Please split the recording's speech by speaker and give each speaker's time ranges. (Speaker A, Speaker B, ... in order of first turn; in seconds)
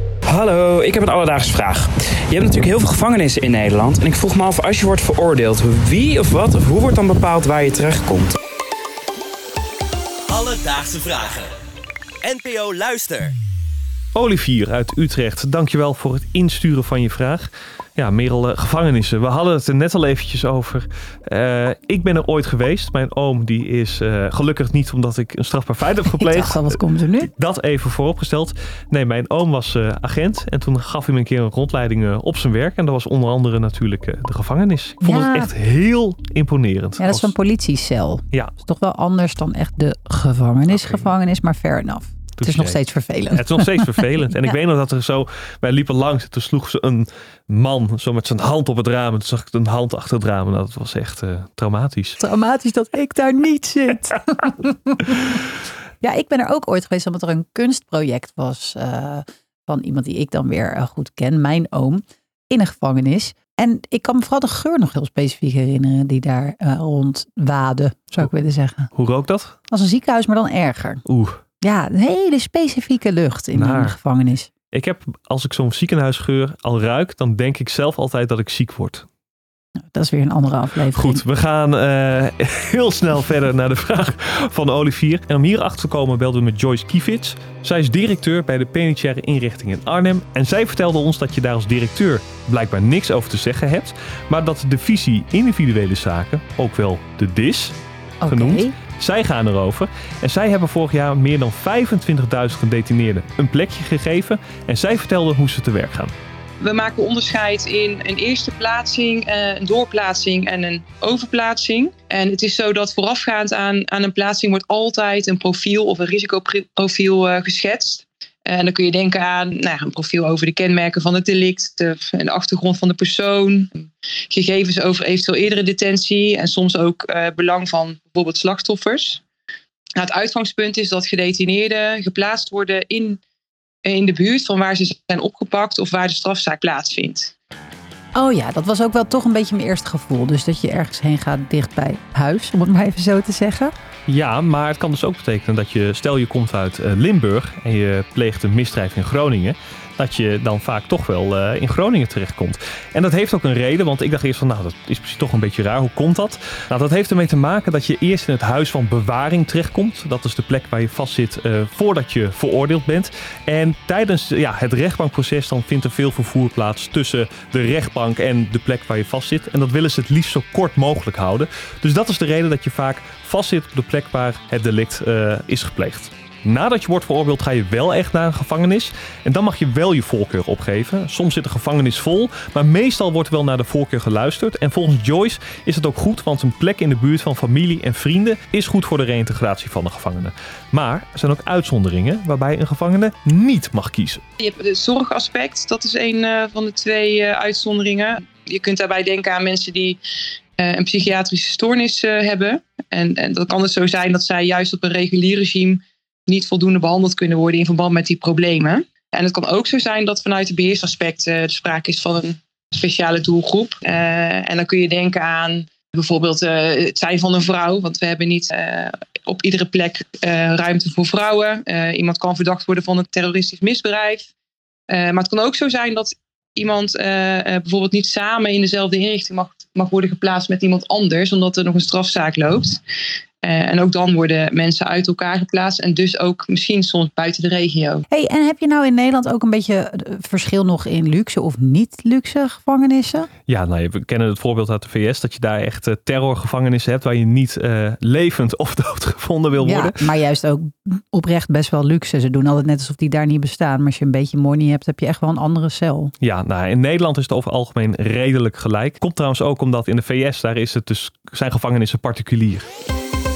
Speaker A: 0.3-8.4
Speaker B: 10.3-11.5, 12.2-13.3
Speaker C: 14.1-26.7, 27.2-37.3, 40.7-41.1, 42.4-42.8, 43.3-52.2, 68.9-69.5, 71.0-71.4, 73.5-74.0, 74.7-79.0, 80.9-106.1, 144.1-194.2, 243.5-250.0, 256.2-262.7
Speaker D: 26.1-27.3, 35.0-35.5, 37.0-44.3, 52.2-55.4, 56.0-68.9, 69.7-71.0, 71.6-74.5, 79.9-81.2, 98.2-98.7, 138.1-143.7, 238.1-243.3, 249.6-256.1
Speaker E: 106.6-129.2, 130.0-133.2, 133.8-137.3, 194.4-200.0, 200.6-224.3, 224.9-232.8, 233.4-238.0